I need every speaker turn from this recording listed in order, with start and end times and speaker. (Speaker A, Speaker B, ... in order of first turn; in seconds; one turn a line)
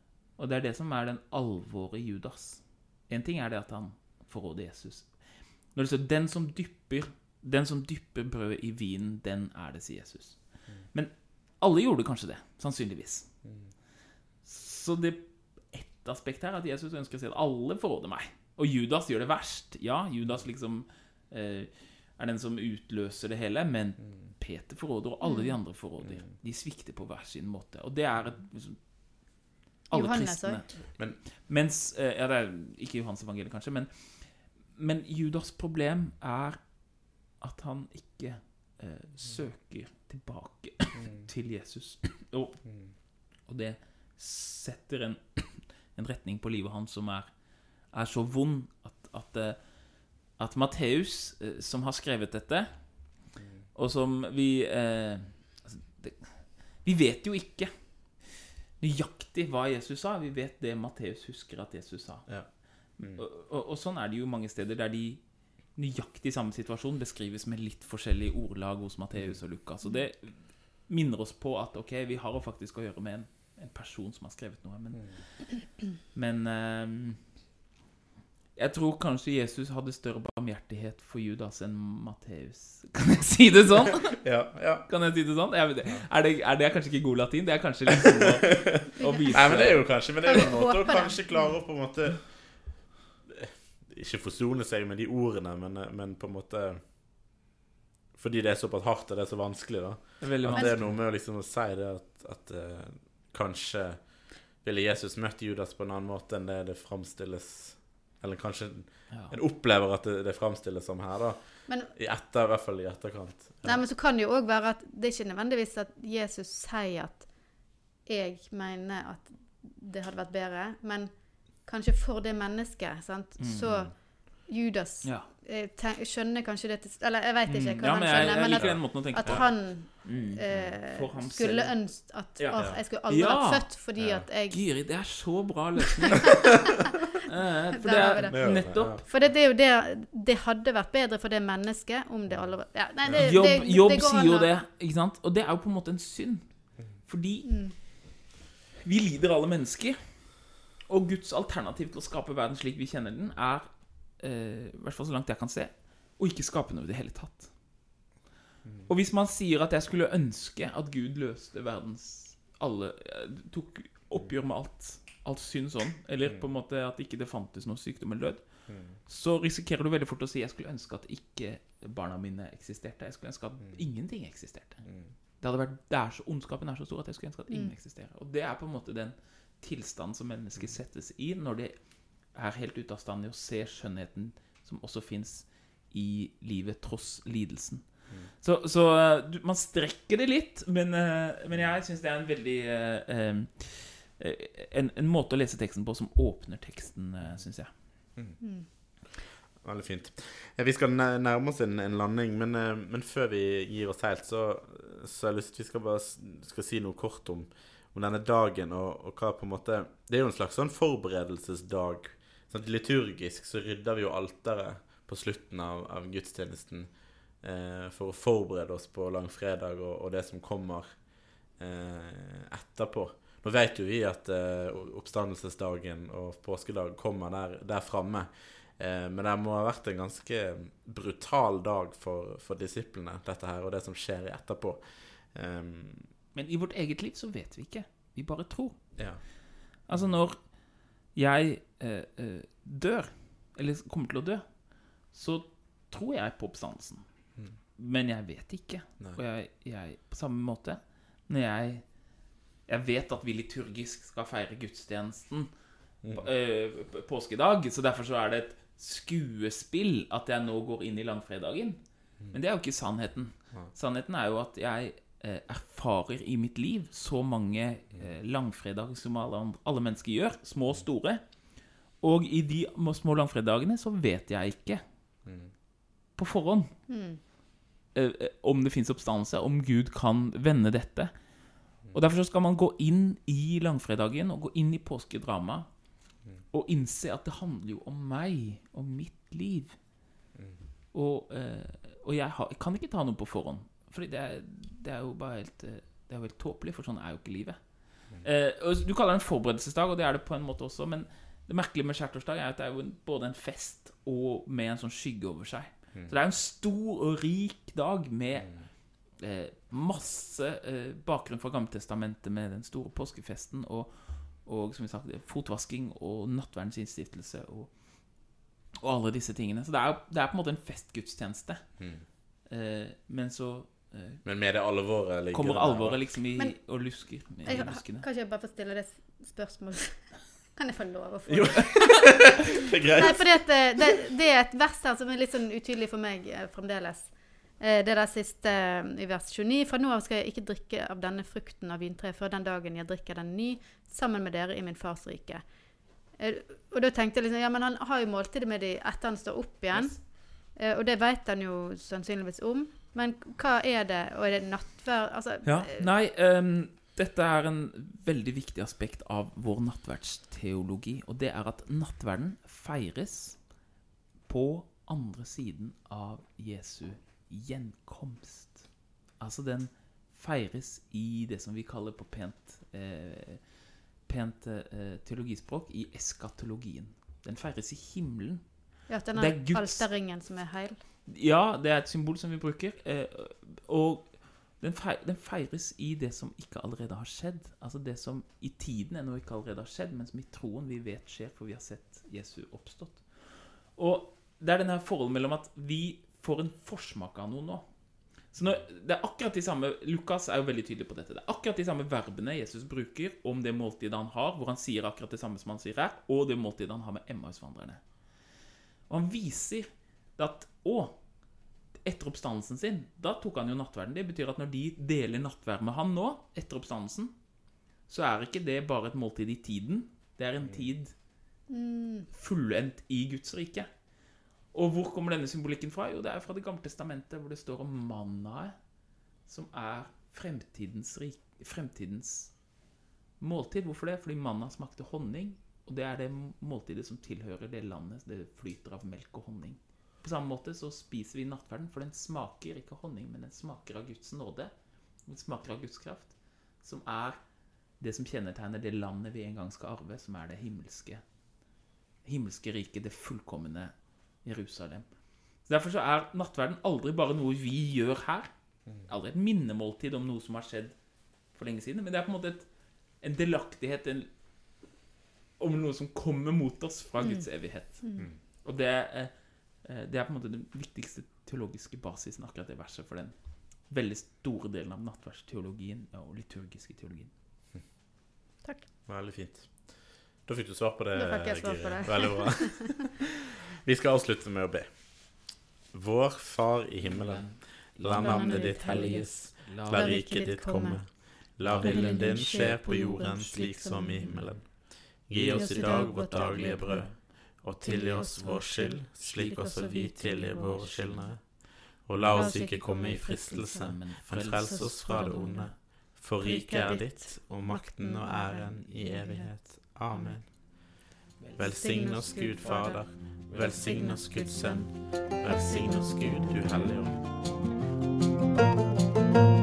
Speaker A: 0.4-13.3
Speaker B: 13.4-13.7
Speaker A: 14.4-53.2
Speaker C: 25.2-25.6
Speaker C: 29.9-30.7
Speaker B: 30.9-31.2
Speaker B: 41.0-41.3
Speaker B: 53.4-53.6
Speaker A: 53.8-77.3
Speaker B: 62.3-63.2
Speaker B: 69.1-69.4
Speaker A: 78.6-84.2
Speaker B: 84.2-84.9
Speaker A: 84.9-89.9
Speaker C: 89.0-91.6
Speaker B: 89.3-96.9
Speaker B: 98.2-113.8
Speaker A: 100.2-101.0
Speaker C: 100.5-100.8
Speaker A: 109.1-109.4
Speaker C: 111.7-111.9
Speaker C: 113.6-134.6
Speaker A: 123.4-123.9
Speaker B: 123.6-123.9
Speaker A: 125.0-125.3
Speaker A: 127.5-139.0
Speaker B: 128.2-129.6
Speaker B: 130.5-130.8
Speaker B: 132.6-132.8
Speaker B: 134.0-134.3
Speaker C: 136.4-137.1
Speaker C: 137.8-144.5
Speaker B: 138.3-139.0
Speaker B: 142.3-143.3
Speaker A: 143.2-148.1
Speaker C: 147.4-147.8
Speaker A: 148.8-157.6
Speaker B: 158.6-158.9
Speaker A: 158.9-197.7
Speaker B: 168.7-169.0
Speaker B: 174.9-175.1
Speaker C: 177.5-177.8
Speaker C: 198.4-198.7
Speaker B: 199.1-236.1
Speaker A: 236.3-239.3
Speaker B: 239.0-239.3
Speaker A: 239.8-247.0
Speaker B: 239.8-240.2
Speaker A: 247.8-252.0
Speaker A: 252.7-255.5
Speaker B: 256.0-256.3
Speaker A: 256.1-271.2
Speaker A: 271.9-274.8
Speaker B: 275.3-275.5
Speaker A: 276.1-276.8
Speaker C: 276.9-277.2
Speaker A: 277.9-281.1
Speaker A: 281.8-285.8
Speaker A: 286.5-289.8
Speaker B: 290.4-290.6
Speaker A: 290.9-321.8
Speaker B: 321.8-322.0
Speaker A: 322.4-324.2
Speaker B: 324.2-326.0
Speaker A: 325.3-328.0
Speaker C: 326.4-345.5
Speaker B: 331.3-333.6
Speaker C: 346.1-355.9
Speaker A: 355.4-363.6
Speaker A: 364.2-379.9
Speaker C: 378.9-380.8
Speaker A: 381.1-397.6
Speaker A: 398.3-407.9
Speaker B: 398.4-398.6
Speaker A: 408.9-411.1
Speaker A: 411.8-417.1
Speaker A: 417.8-420.9
Speaker C: 421.5-422.1
Speaker A: 422.1-423.7
Speaker A: 424.5-428.6
Speaker A: 429.3-432.4
Speaker A: 433.2-444.5
Speaker A: 445.1-447.2
Speaker A: 447.8-451.0
Speaker A: 452.1-460.8
Speaker A: 461.3-464.1
Speaker A: 465.4-477.1
Speaker C: 467.0-468.1
Speaker C: 478.4-478.7
Speaker B: 478.9-483.1
Speaker C: 481.0-482.9
Speaker B: 483.6-510.8
Speaker A: 486.8-490.0
Speaker C: 487.8-494.4
Speaker A: 491.4-494.4
Speaker A: 495.0-497.0
Speaker C: 495.1-500.9
Speaker A: 497.6-498.7
Speaker A: 500.3-501.1
Speaker A: 501.9-505.5
Speaker C: 502.1-510.3
Speaker A: 511.2-511.6
Speaker B: 511.4-517.0
Speaker C: 511.4-516.7
Speaker A: 512.4-513.8